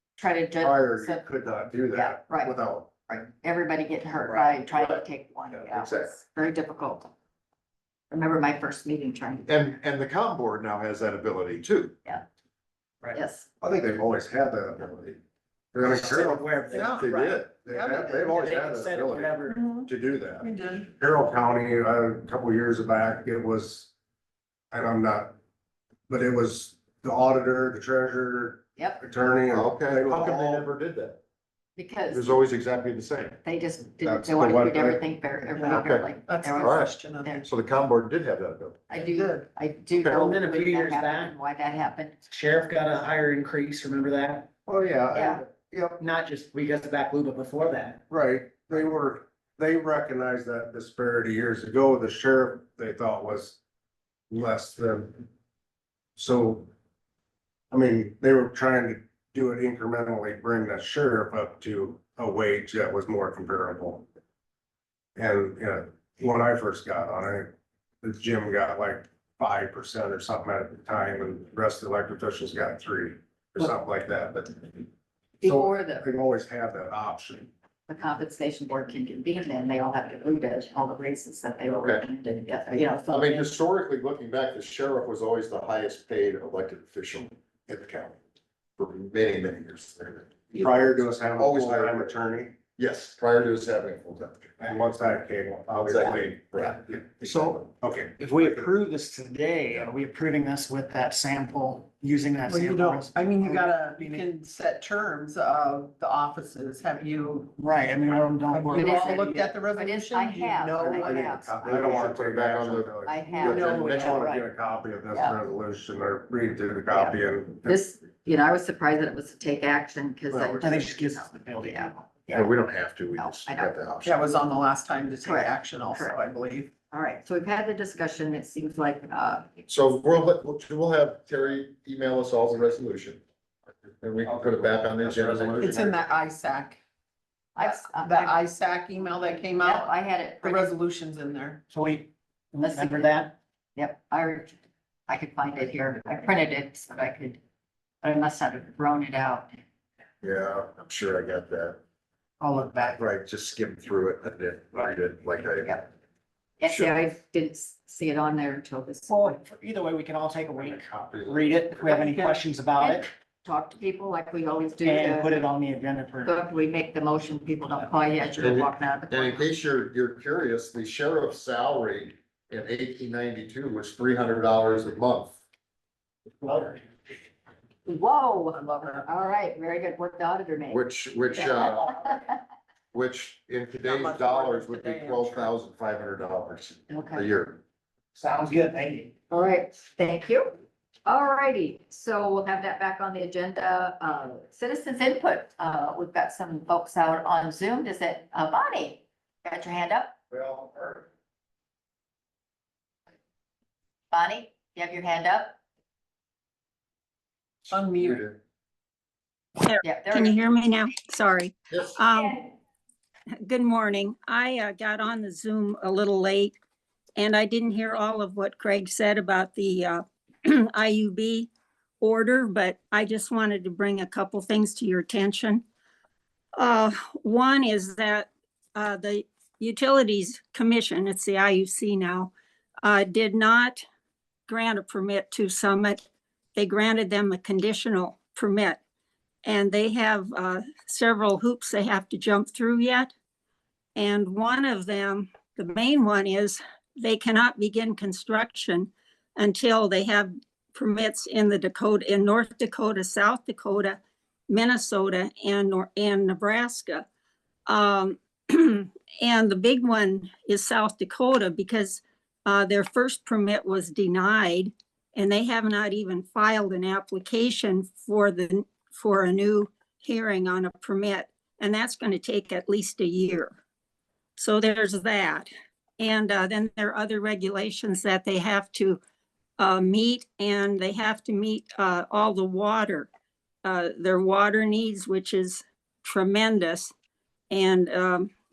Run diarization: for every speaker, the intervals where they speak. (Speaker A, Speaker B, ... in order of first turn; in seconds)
Speaker A: 0.2-1.2, 1.9-7.1, 8.1-9.6, 13.1-13.5, 31.8-32.4, 33.4-37.5, 38.9-42.1, 45.1-45.4, 75.4-76.1, 77.9-83.5, 108.7-112.1, 113.0-114.5, 115.1-115.4, 116.9-122.6, 123.2-123.8, 125.2-126.2, 126.9-129.6, 137.6-138.4, 139.4-140.7, 142.6-143.2, 143.8-144.6, 145.1-147.4, 148.0-149.5, 156.6-159.4, 162.8-165.3, 166.2-169.5, 177.8-182.4, 186.9-187.3, 189.3-200.1, 204.1-205.6, 209.8-210.4
Speaker B: 0.6-2.9, 13.6-15.2, 15.7-16.5, 17.6-23.9, 24.7-25.3, 26.1-30.6, 34.0-35.0, 44.7-46.0, 48.1-53.6, 54.3-55.3, 56.1-56.7, 57.7-64.0, 65.2-74.9, 75.4-77.5, 90.5-92.5, 94.6-98.7, 110.8-117.8, 134.2-135.8, 200.3-201.0
Speaker C: 4.2-6.1, 9.5-11.9, 16.8-17.6, 29.5-31.2, 32.1-33.4, 35.7-36.9, 37.4-38.8, 81.7-82.0, 83.1-88.2, 88.8-92.2, 92.8-94.5, 95.9-97.6, 111.6-114.3, 122.3-124.2, 129.7-133.2, 134.0-135.9, 150.2-151.8, 152.9-155.9, 156.6-157.0, 160.6-161.9, 168.4-175.4, 180.7-182.0, 182.9-187.6, 207.9-208.3, 211.7-211.9
Speaker D: 15.8-17.3, 18.3-19.6, 40.0-41.4, 42.3-44.5, 46.0-48.0, 98.2-104.3, 107.6-109.4, 120.6-122.0, 141.7-143.3, 159.1-163.1, 164.8-166.4, 176.4-176.7, 188.2-189.1
Speaker E: 16.7-18.4, 19.5-19.9, 20.4-20.9, 35.5-37.4, 39.1-39.5, 102.5-107.5, 108.7-111.3, 113.5-113.9, 124.0-126.7, 135.6-136.8, 137.6-141.6, 161.9-162.4, 183.8-185.5, 207.7-208.2
Speaker F: 209.6-212.5, 213.4-216.5, 217.2-221.5, 222.0-225.6, 226.6-232.3, 232.8-233.8, 234.5-236.0, 236.6-238.8, 239.4-243.1, 243.9-257.0, 257.7-273.6, 274.4-279.0, 279.6-283.1, 283.6-286.9, 287.5-288.3